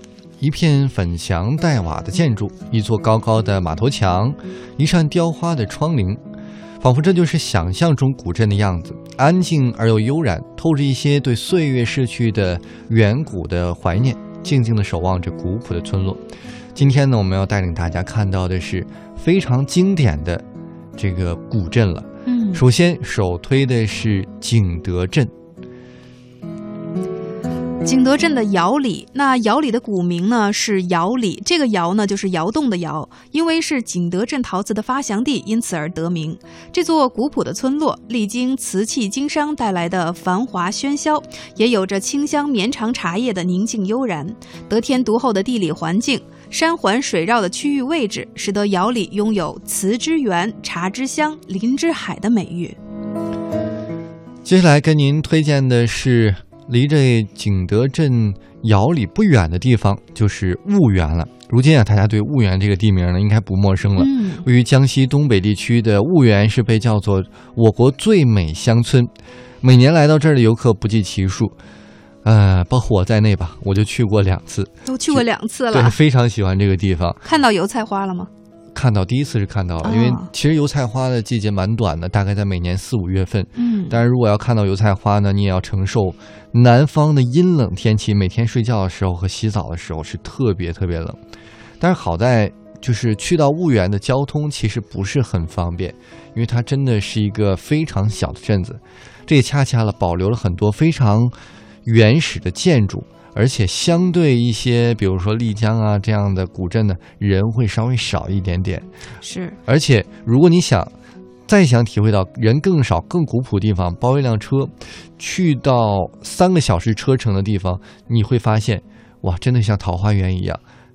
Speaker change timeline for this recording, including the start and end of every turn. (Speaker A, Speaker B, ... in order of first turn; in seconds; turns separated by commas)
Speaker A: 0.4-6.2, Speaker A: 6.8-16.2, Speaker A: 16.8-20.4, Speaker A: 21.0-25.3, Speaker B: 22.3-22.6, Speaker B: 27.8-52.8, Speaker A: 54.5-71.5, Speaker B: 64.0-64.5, Speaker A: 72.2-77.2, Speaker B: 74.8-76.0, Speaker B: 77.2-78.3, Speaker A: 78.7-91.2, Speaker B: 79.8-80.3, Speaker B: 83.6-84.0, Speaker A: 91.8-108.9, Speaker B: 109.2-109.6, Speaker A: 109.7-110.9, Speaker A: 111.5-120.6